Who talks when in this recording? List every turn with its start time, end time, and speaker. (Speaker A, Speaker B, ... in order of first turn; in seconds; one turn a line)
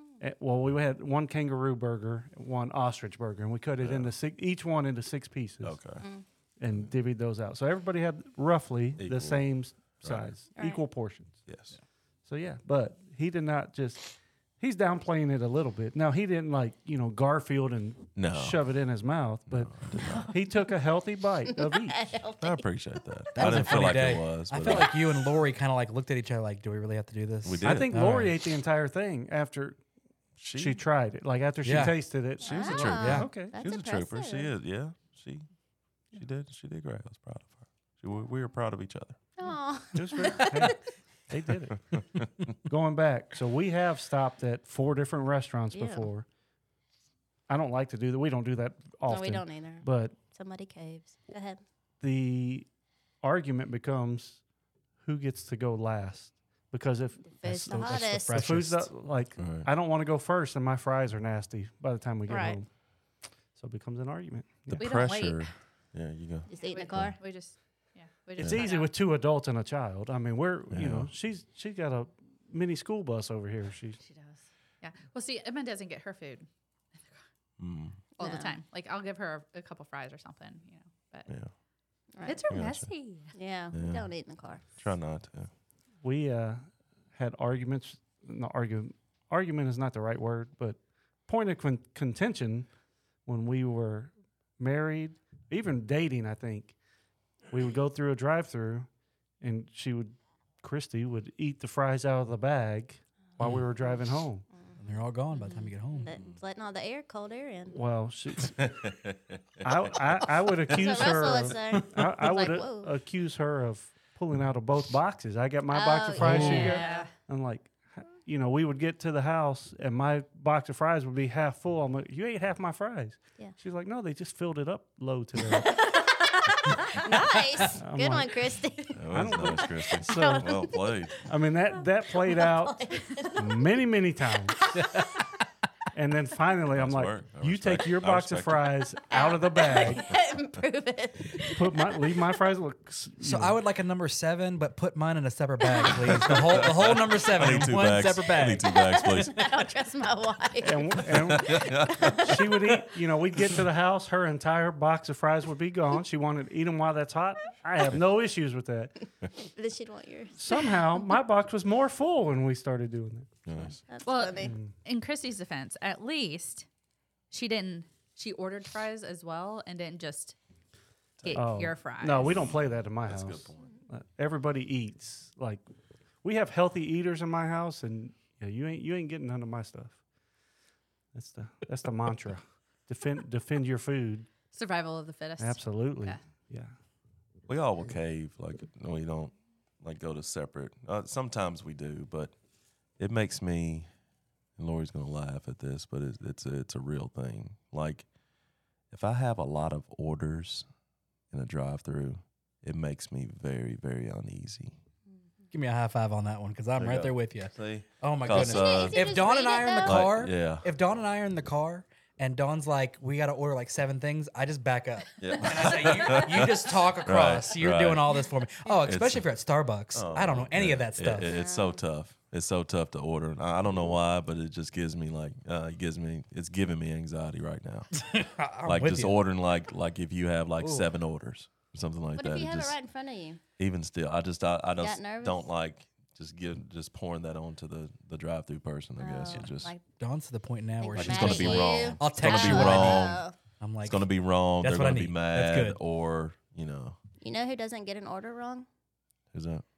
Speaker A: 0.2-5.8
Speaker B: 3.8-4.1
Speaker B: 5.6-6.0
Speaker C: 6.0-6.2
Speaker A: 6.6-11.4
Speaker B: 9.0-10.3
Speaker C: 10.5-10.8
Speaker B: 11.4-11.8
Speaker A: 12.2-22.1
Speaker B: 18.1-18.6
Speaker B: 19.5-20.4
Speaker C: 21.5-22.6
Speaker B: 22.4-24.9
Speaker C: 23.3-23.8
Speaker D: 23.4-28.4
Speaker C: 24.6-24.9
Speaker B: 27.4-28.0
Speaker A: 27.6-29.8
Speaker B: 30.4-30.8
Speaker A: 30.5-33.6
Speaker D: 31.6-32.0
Speaker C: 32.4-34.5
Speaker B: 32.4-35.5
Speaker D: 33.0-33.3
Speaker B: 36.1-39.2
Speaker C: 39.4-40.8
Speaker A: 39.9-41.8
Speaker B: 41.7-42.5
Speaker A: 42.6-46.2
Speaker C: 45.7-46.1
Speaker A: 47.5-50.2
Speaker C: 49.1-51.6
Speaker A: 52.0-52.7
Speaker A: 53.2-54.4
Speaker A: 55.0-62.7
Speaker C: 57.3-58.4
Speaker D: 57.4-58.9
Speaker B: 59.4-59.7
Speaker C: 62.3-62.6
Speaker A: 63.5-64.9
Speaker B: 64.7-67.2
Speaker E: 64.8-65.5
Speaker C: 66.5-67.2
Speaker E: 66.5-68.9
Speaker A: 68.4-74.0
Speaker B: 70.7-71.1
Speaker E: 74.0-76.5
Speaker B: 77.6-78.0
Speaker E: 78.2-81.3
Speaker C: 78.2-78.5
Speaker C: 82.1-82.4
Speaker E: 82.2-83.3
Speaker B: 82.5-82.9
Speaker C: 83.3-84.6
Speaker B: 83.7-84.0
Speaker B: 84.8-85.5
Speaker A: 86.0-92.7
Speaker A: 93.2-96.7
Speaker A: 97.5-98.9
Speaker A: 99.4-104.4
Speaker D: 103.4-103.7
Speaker C: 104.5-104.8
Speaker D: 104.8-106.2
Speaker C: 105.3-107.8
Speaker A: 107.7-108.6
Speaker B: 108.5-110.0
Speaker A: 109.6-125.8
Speaker B: 110.7-111.5
Speaker C: 110.7-112.9
Speaker C: 115.7-117.1
Speaker D: 116.2-116.7
Speaker E: 116.4-117.1
Speaker C: 125.5-129.0
Speaker A: 127.8-128.4
Speaker B: 128.9-131.2
Speaker A: 129.1-130.6
Speaker C: 129.6-131.1
Speaker A: 131.2-132.8
Speaker C: 132.1-133.6
Speaker A: 133.3-134.6
Speaker C: 134.7-134.9
Speaker D: 134.8-135.1
Speaker A: 135.9-140.1
Speaker B: 136.7-138.7
Speaker C: 139.1-142.2
Speaker A: 141.5-143.6
Speaker D: 143.2-148.7
Speaker C: 145.6-146.0
Speaker B: 146.1-149.4
Speaker C: 148.7-152.4
Speaker A: 150.6-158.9
Speaker B: 151.1-152.3
Speaker C: 159.4-160.8
Speaker A: 160.4-163.3
Speaker B: 163.4-163.8
Speaker C: 163.9-164.5
Speaker E: 164.0-166.7
Speaker A: 164.4-164.7
Speaker E: 167.3-170.3
Speaker B: 171.2-171.5
Speaker E: 171.2-172.2
Speaker A: 171.3-175.6
Speaker B: 172.2-173.8
Speaker A: 176.2-180.0
Speaker A: 181.1-184.3
Speaker E: 184.5-186.2
Speaker A: 185.4-186.7
Speaker B: 187.5-192.3
Speaker B: 193.0-193.9
Speaker B: 194.6-198.1
Speaker B: 198.9-200.7
Speaker B: 201.3-204.8
Speaker D: 205.5-221.3
Speaker B: 206.8-209.0
Speaker C: 208.3-210.2
Speaker B: 209.8-210.7
Speaker B: 215.2-218.2
Speaker B: 218.8-219.3
Speaker B: 219.9-227.9
Speaker C: 221.2-221.8
Speaker D: 227.9-229.2
Speaker B: 228.6-232.8
Speaker D: 230.6-230.9
Speaker C: 232.2-233.4
Speaker B: 233.6-239.7
Speaker C: 234.8-235.5
Speaker C: 239.0-239.8
Speaker D: 240.0-244.1
Speaker C: 240.8-243.3
Speaker B: 240.9-243.2
Speaker B: 243.8-247.0
Speaker D: 244.6-245.8
Speaker C: 247.2-248.7
Speaker B: 249.3-249.6